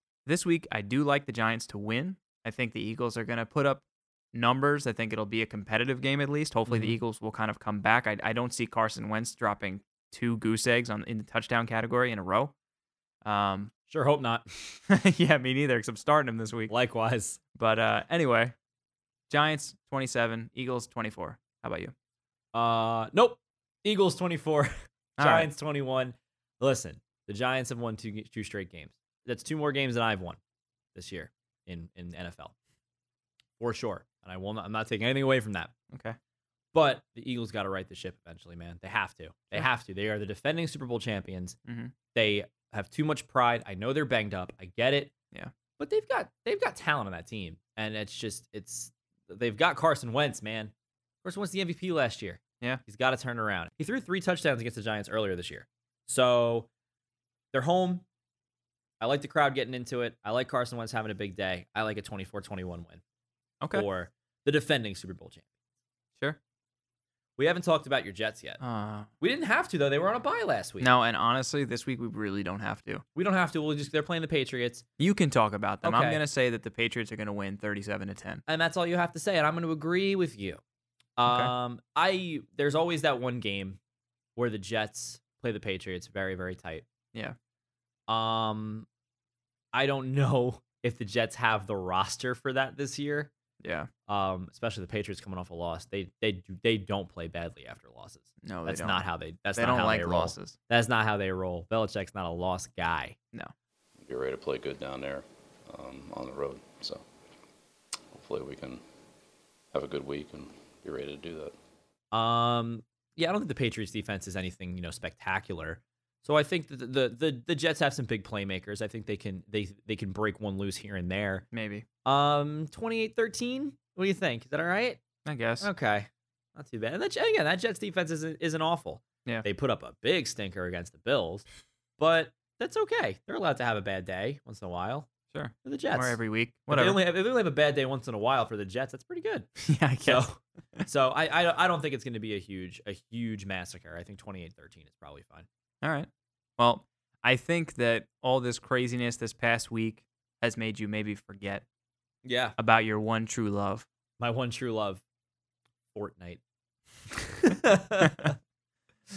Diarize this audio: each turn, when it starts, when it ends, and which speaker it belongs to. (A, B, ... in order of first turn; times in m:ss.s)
0:00.3-0:12.5 A
0:06.7-0:07.0 B
0:13.2-0:13.7 A
0:13.9-0:14.8 B
0:14.9-0:16.7 A
0:16.7-0:17.4 B
0:17.6-0:18.6 A
0:19.3-0:21.9 A
0:22.5-0:30.4 B
0:25.2-0:25.5 A
0:31.0-0:32.5 B
0:33.6-0:35.7 B
0:35.9-0:36.2 A
0:36.7-0:41.6 B
0:41.6-0:41.9 A
0:42.1-0:45.1 B
0:45.8-0:50.7 B
0:51.2-0:56.7 B
0:57.5-0:58.0 B
0:59.0-1:03.0 B
1:03.6-1:03.9 A
1:03.7-1:05.4 B
1:07.4-1:08.6 B
1:08.6-1:09.1 A
1:09.2-1:10.9 B
1:10.8-1:13.0 A
1:13.2-1:14.8 B
1:15.0-1:18.4 A
1:15.8-1:16.2 B
1:18.5-1:20.6 B
1:21.2-1:23.8 B
1:21.3-1:21.5 A
1:24.4-1:26.8 B
1:28.1-1:28.9 B
1:29.7-1:33.3 B
1:33.6-1:33.9 A
1:34.1-1:43.2 B
1:38.4-1:40.6 A
1:44.0-1:47.0 C
1:48.1-1:48.8 C
1:49.7-1:51.5 C
1:52.1-2:01.4 B
2:01.5-2:01.9 A
2:02.0-2:05.0 B
2:05.2-2:05.7 A
2:05.6-2:11.5 B
2:12.0-2:15.1 B
2:15.3-2:17.0 A
2:15.6-2:19.5 B
2:19.6-2:20.3 A
2:20.0-2:25.5 B
2:25.8-2:31.6 A
2:32.2-2:32.6 B
2:32.6-2:33.9 A
2:34.2-2:35.0 B
2:35.9-2:36.4 B
2:37.1-2:38.4 B